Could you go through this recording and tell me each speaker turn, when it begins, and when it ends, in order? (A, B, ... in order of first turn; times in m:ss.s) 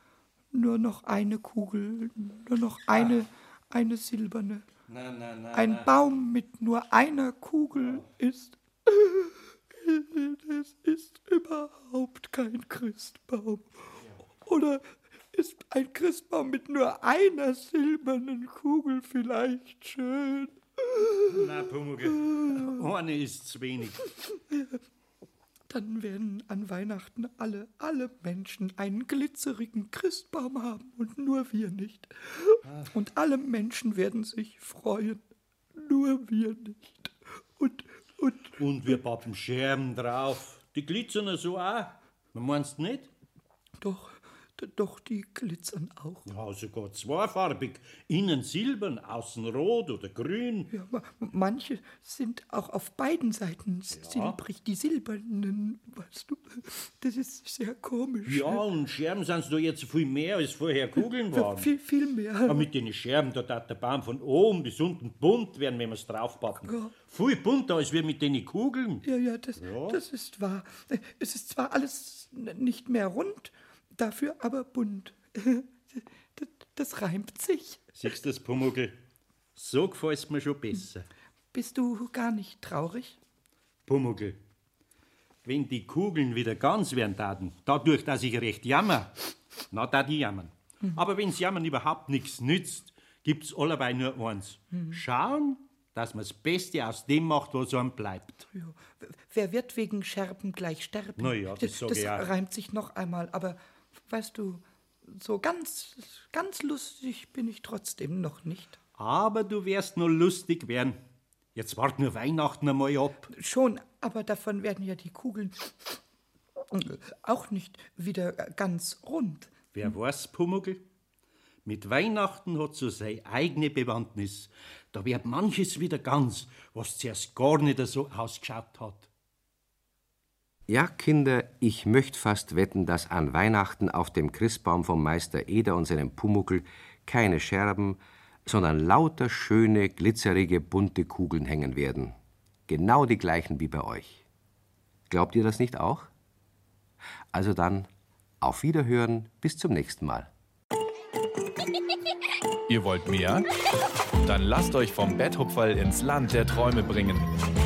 0:00.5-0:04.6 A
0:04.9-0:05.9 B
0:05.5-0:13.8 A
0:07.7-0:08.0 B
0:14.4-0:21.4 A
0:21.3-0:24.0 B
0:22.1-0:22.8 A
0:24.2-0:24.8 A
0:25.7-0:35.2 A
0:32.6-0:32.9 B
0:35.7-0:38.5 A
0:38.6-0:43.1 B
0:43.8-0:46.3 A
0:46.2-0:50.7 B
0:50.7-0:58.6 A
0:53.9-0:54.4 B
0:58.2-1:01.7 B
1:01.3-1:02.7 A
1:02.4-1:10.0 B
1:06.6-1:06.9 A
1:09.0-1:17.9 A
1:18.0-1:18.9 B
1:19.6-1:21.0 B
1:21.5-1:23.2 A
1:23.9-1:24.4 B
1:25.4-1:29.1 B
1:29.7-1:38.4 B
1:38.5-1:48.8 A
1:41.2-1:42.3 B
1:49.0-1:51.0 B
1:51.5-1:53.3 B
1:53.3-1:56.0 A
1:56.7-1:59.5 A
1:59.7-2:00.8 B
2:01.6-2:09.1 B
2:10.7-2:22.1 C
2:22.7-2:24.2 C
2:25.1-2:26.1 C
2:27.3-2:27.9 C
2:28.4-2:30.3 C
2:32.7-2:33.5 D
2:34.2-2:37.4 D